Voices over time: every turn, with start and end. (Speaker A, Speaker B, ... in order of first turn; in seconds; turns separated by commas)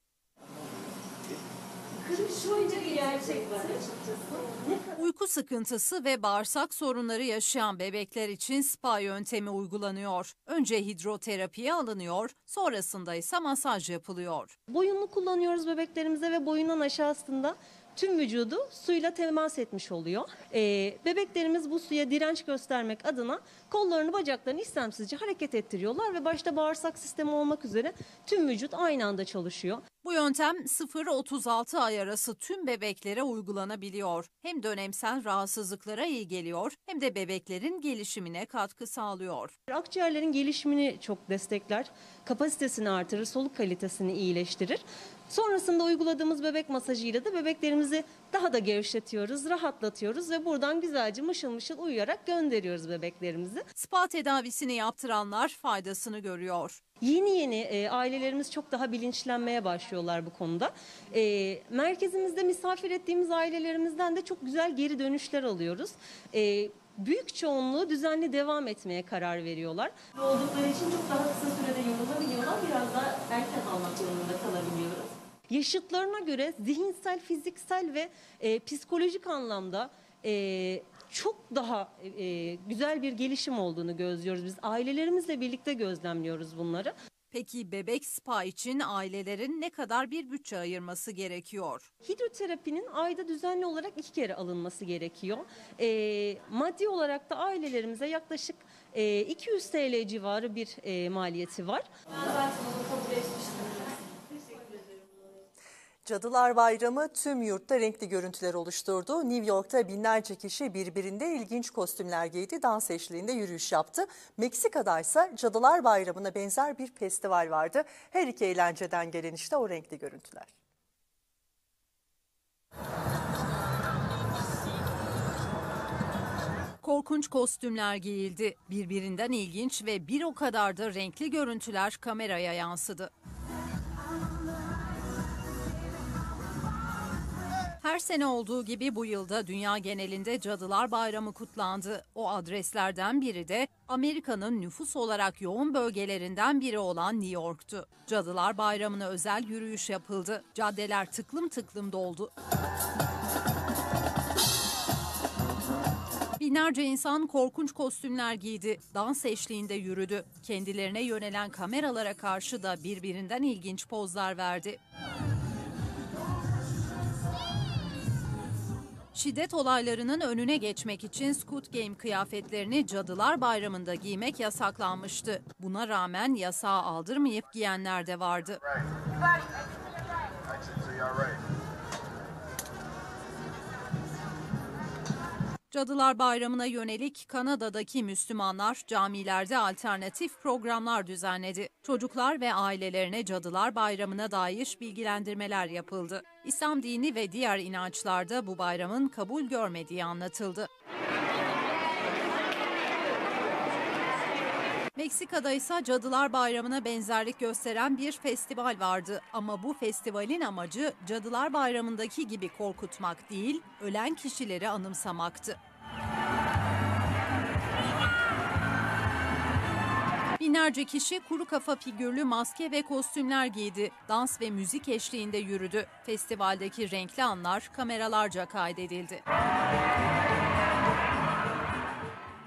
Speaker A: 2.0-4.8, Speaker B: 5.0-14.5, Speaker A: 14.7-29.8, Speaker B: 30.0-39.5, Speaker A: 39.7-53.6, Speaker B: 53.7-56.8, Speaker A: 57.0-86.9, Speaker B: 87.3-91.9, Speaker A: 92.0-101.8, Speaker C: 106.0-120.5, Speaker B: 126.8-133.1, Speaker B: 137.8-152.3, Speaker B: 156.4-164.8, Speaker B: 169.1-178.6, Speaker B: 185.7-200.7, Speaker B: 204.9-215.6, Speaker B: 220.4-229.2